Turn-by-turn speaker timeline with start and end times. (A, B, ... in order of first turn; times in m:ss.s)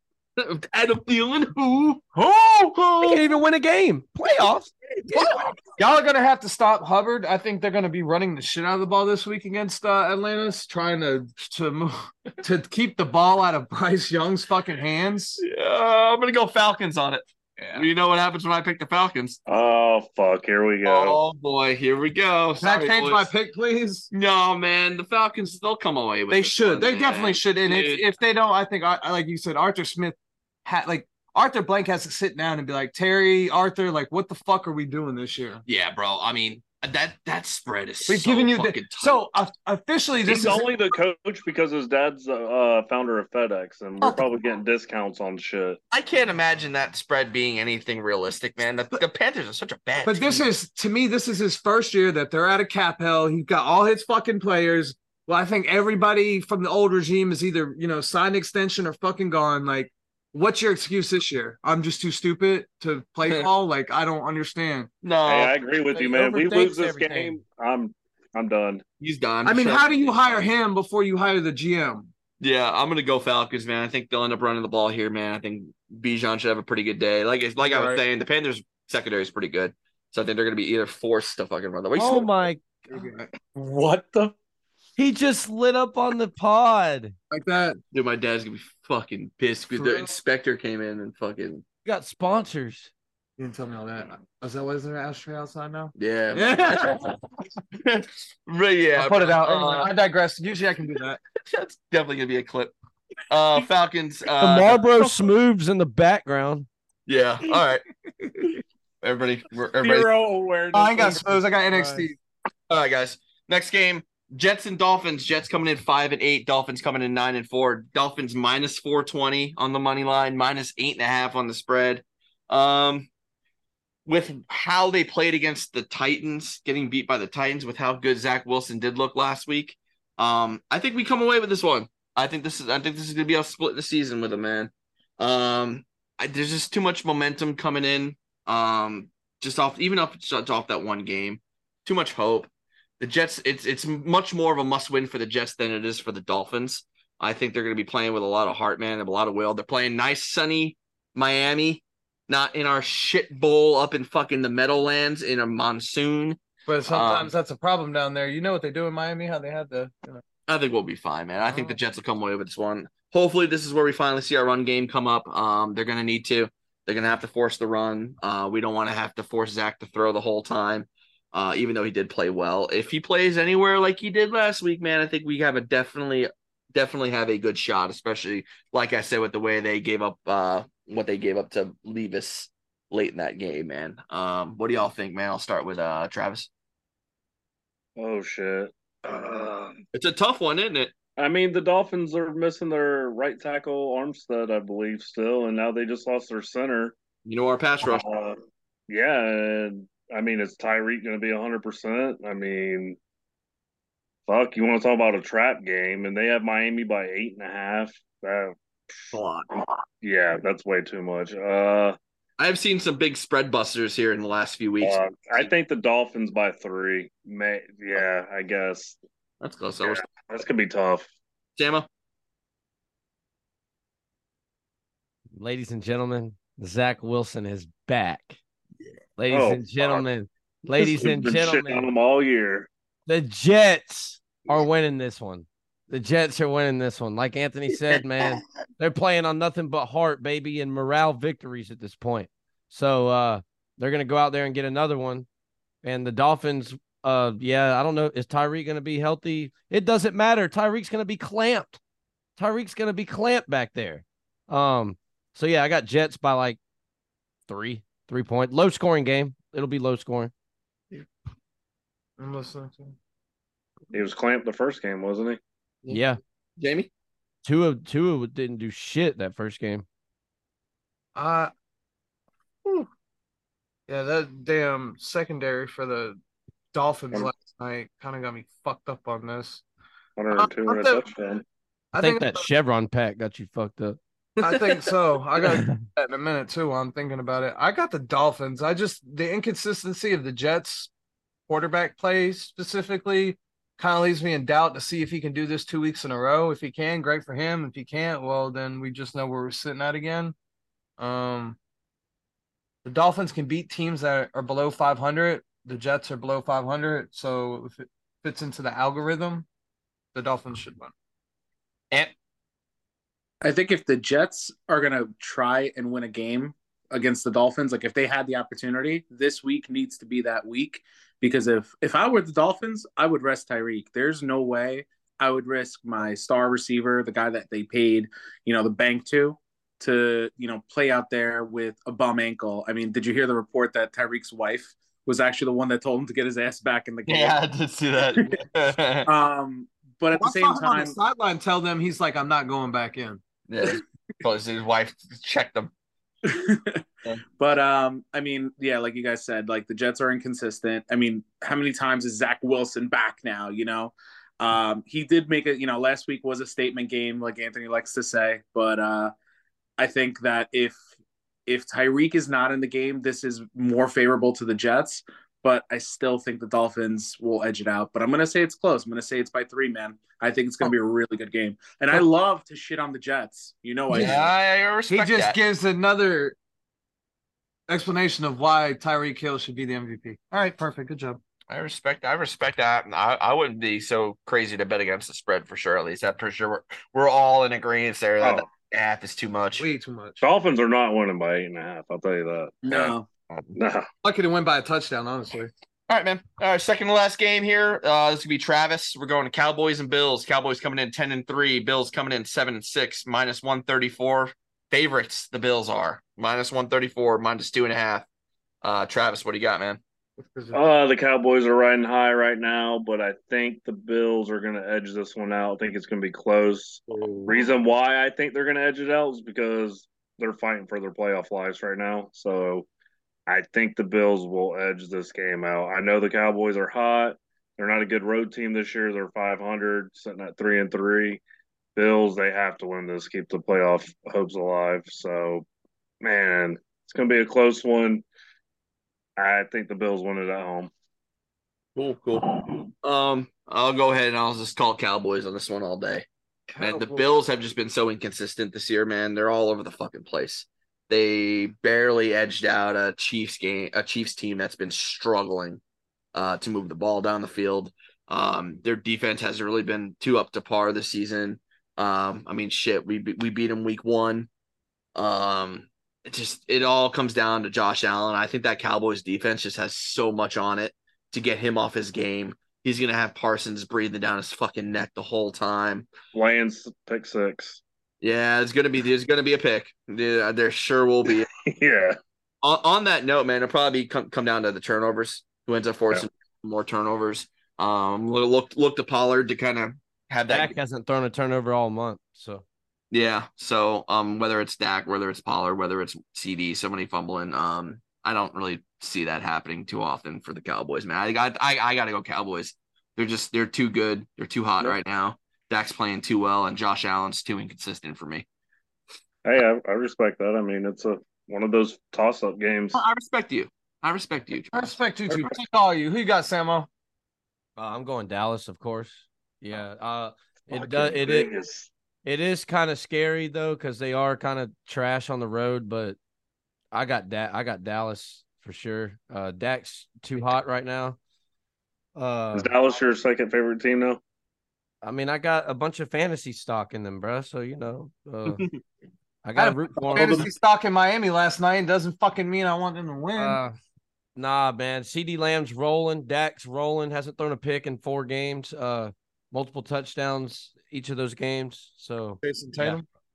0:00.4-0:02.0 A
0:02.2-0:02.8 B
0:02.7-0:03.2 A
0:03.0-0:04.8 C
0:05.0-0:05.6 A
0:05.6-0:15.4 B
0:15.4-0:19.4 A
0:17.6-0:17.9 B
0:19.5-0:21.2 D
0:20.8-0:23.3 A
0:22.6-0:24.1 B
0:24.1-0:28.1 A
0:26.3-0:35.6 B
0:35.7-0:39.2 A
0:38.1-0:40.7 B
0:40.3-0:45.8 D
0:45.9-0:50.4 A
0:50.0-1:04.9 B
1:05.0-1:05.5 A
1:05.3-1:08.8 D
1:05.9-1:07.4 B
1:09.0-1:10.5 A
1:09.4-1:12.1 B
1:12.4-1:22.3 A
1:17.6-1:18.0 B
1:22.0-1:22.8 C
1:22.9-1:23.2 B
1:23.4-1:24.3 E
1:25.0-1:27.2 C
1:27.3-1:27.8 B
1:27.9-1:31.6 A
1:29.7-1:30.1 B
1:31.8-1:32.9 C
1:33.4-1:37.2 B
1:36.0-1:37.1 A
1:37.8-1:39.9 A
1:39.0-1:41.2 B
1:41.5-1:42.7 A
1:43.3-1:44.8 A
1:44.4-1:46.7 C
1:47.1-1:47.8 A
1:49.0-1:50.1 A
1:49.8-1:51.4 E
1:50.7-1:52.2 B
1:52.7-2:03.1 A
2:04.1-2:22.5 A
2:23.0-2:37.3 A
2:36.7-2:40.2 B
2:40.5-3:06.5 A
2:41.5-2:41.8 B
3:08.0-3:09.8 D
3:09.9-3:10.9 A
3:11.2-3:17.0 D
3:17.2-3:18.0 A
3:17.8-3:23.0 D
3:24.3-3:29.1 D
3:29.1-3:29.6 A
3:30.0-3:32.0 D
3:32.4-3:35.0 A
3:34.8-3:39.0 D
3:39.4-3:40.0 A
3:39.8-3:41.1 D
3:41.6-3:41.9 A
3:45.4-3:48.4 C
3:49.2-3:51.9 C
3:49.3-3:50.1 D
3:50.8-3:52.7 D
3:53.1-4:05.3 C
4:05.8-4:11.8 C
4:12.4-4:16.6 C
4:17.5-4:20.3 C
4:22.2-4:23.0 B
4:23.9-4:25.4 D
4:25.9-4:26.2 C
4:26.6-4:26.9 A
4:27.4-4:29.8 C
4:31.2-4:31.5 B
4:33.9-4:36.2 B
4:36.7-4:39.6 B
4:40.2-4:41.4 D
4:40.3-4:41.0 B
4:41.9-4:42.5 B
4:42.0-4:44.0 C
4:44.4-4:44.8 A
4:44.4-4:50.9 B
4:45.4-4:45.8 C
4:51.5-5:00.4 B
5:01.0-5:01.6 B
5:02.8-5:09.5 B
5:10.1-5:10.9 B
5:13.4-5:37.4 E
5:37.1-5:39.1 A
5:39.1-5:41.0 E
5:40.1-5:43.8 B
5:43.5-5:45.7 A
5:46.2-5:46.8 E
5:47.4-5:59.1 E
5:59.8-6:00.8 E
6:01.5-6:14.3 E
6:13.9-6:14.3 B
6:13.9-6:15.4 A
6:14.9-6:16.4 B
6:17.7-6:21.2 B
6:21.5-6:29.6 A
6:28.2-6:28.4 D
6:29.6-6:30.2 B
6:30.2-6:32.9 D
6:32.6-6:33.0 E
6:33.6-6:33.8 D
6:34.0-6:35.5 B
6:35.9-6:48.1 A
6:48.6-6:49.8 A
6:50.2-6:50.6 B
6:50.5-7:02.7 D
6:56.9-6:57.5 B
7:03.3-7:11.2 D
7:11.8-7:15.4 D
7:16.0-7:18.0 D
7:19.2-7:20.7 D
7:21.8-7:26.1 A
7:26.5-7:27.1 B
7:26.6-7:35.6 A
7:36.1-7:44.3 A
7:45.0-7:55.9 A
7:56.1-7:57.6 D
7:58.0-8:01.3 A
8:01.5-8:02.0 D
8:02.4-8:10.6 A
8:10.3-8:12.4 C
8:12.9-8:28.3 A
8:29.2-8:32.8 D
8:32.7-8:34.8 A
8:34.5-8:36.7 B
8:37.6-8:41.3 C
8:40.5-8:41.7 D
8:42.0-8:46.0 C
8:46.7-8:51.0 C
8:52.0-8:52.5 C
8:52.3-8:54.0 D
8:54.8-8:58.4 C
8:59.2-9:00.3 C
8:59.4-9:03.4 B
9:03.2-9:03.6 C
9:04.2-9:12.8 C
9:12.2-9:12.8 B